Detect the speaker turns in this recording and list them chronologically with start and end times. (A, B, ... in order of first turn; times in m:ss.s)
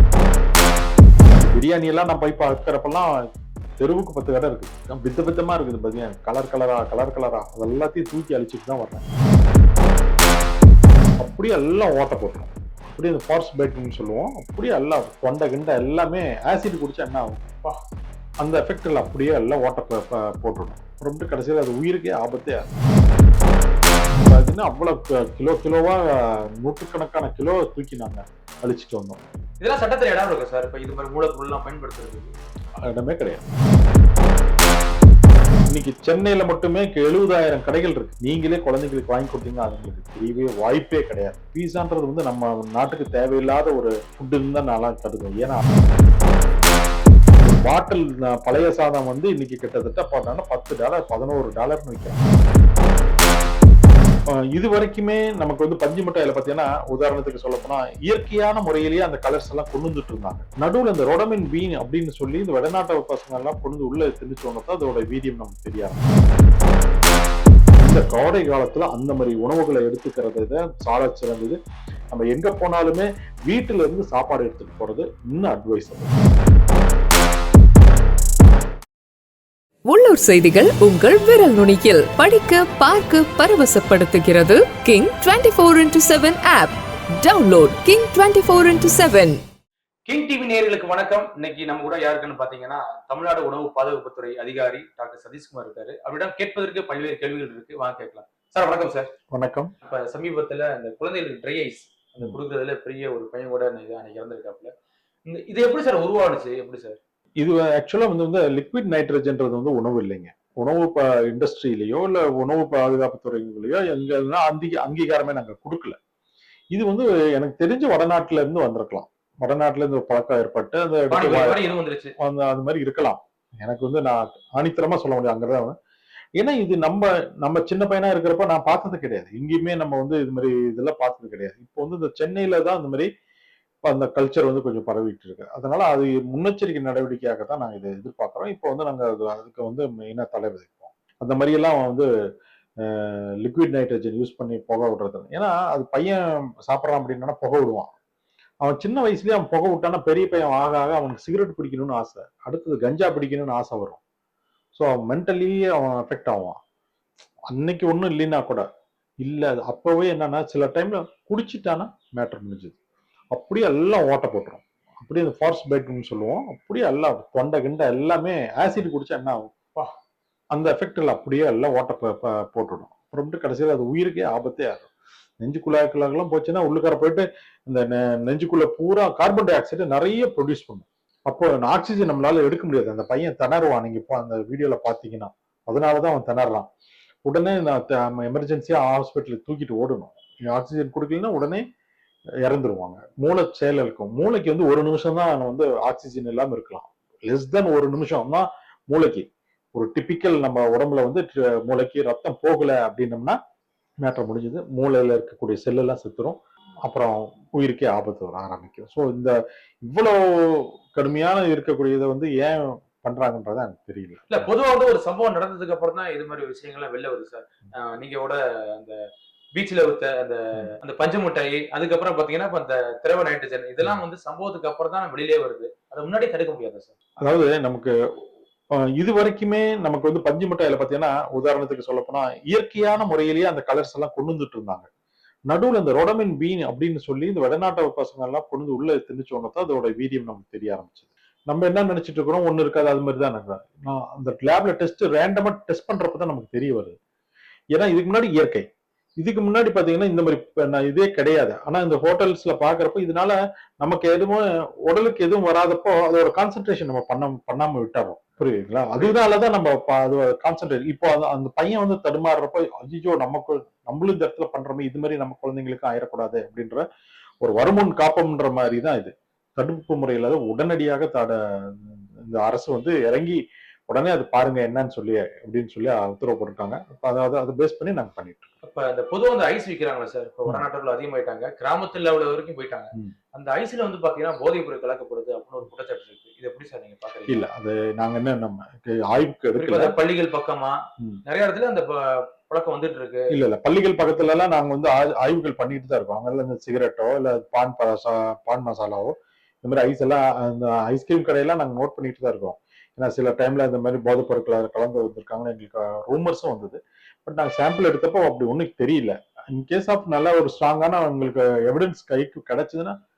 0:01.4-0:03.1 A
0:03.8-0:09.1 A
0:11.2-0:17.6 A
0:18.4-0:22.8 A
0:24.2-0:29.2 A
0:29.6-0:32.3 B
0:32.8-0:33.5 A
0:35.7-0:45.6 A
0:47.4-0:52.2 A
0:54.3-1:06.3 A
1:07.8-1:11.6 A
1:12.1-1:16.3 A
1:19.9-1:29.4 C
1:30.0-1:39.1 B
1:39.3-1:39.7 A
1:39.8-1:44.7 B
1:45.3-1:47.0 B
1:47.4-1:56.0 A
1:56.7-2:05.7 A
2:01.1-2:02.1 B
2:06.4-2:13.1 A
2:13.8-2:22.1 A
2:22.8-2:27.9 A
2:28.6-2:34.0 A
2:34.7-2:36.6 A
2:37.5-2:38.6 A
2:39.2-2:42.8 A
2:43.3-2:49.5 A
2:50.5-2:54.9 A
2:55.4-3:06.7 A
3:07.2-3:11.6 A
3:12.4-3:23.4 A
3:24.0-3:34.4 A
3:34.3-3:39.0 B
3:39.5-3:46.9 B
3:47.2-3:47.9 A
3:48.9-3:54.9 A
3:55.5-4:07.0 A
4:07.7-4:08.6 A
4:09.2-4:26.8 A
4:27.4-4:38.5 A
4:38.6-4:47.4 B
4:47.3-4:49.9 A
4:49.6-4:53.3 B
4:53.3-5:13.0 A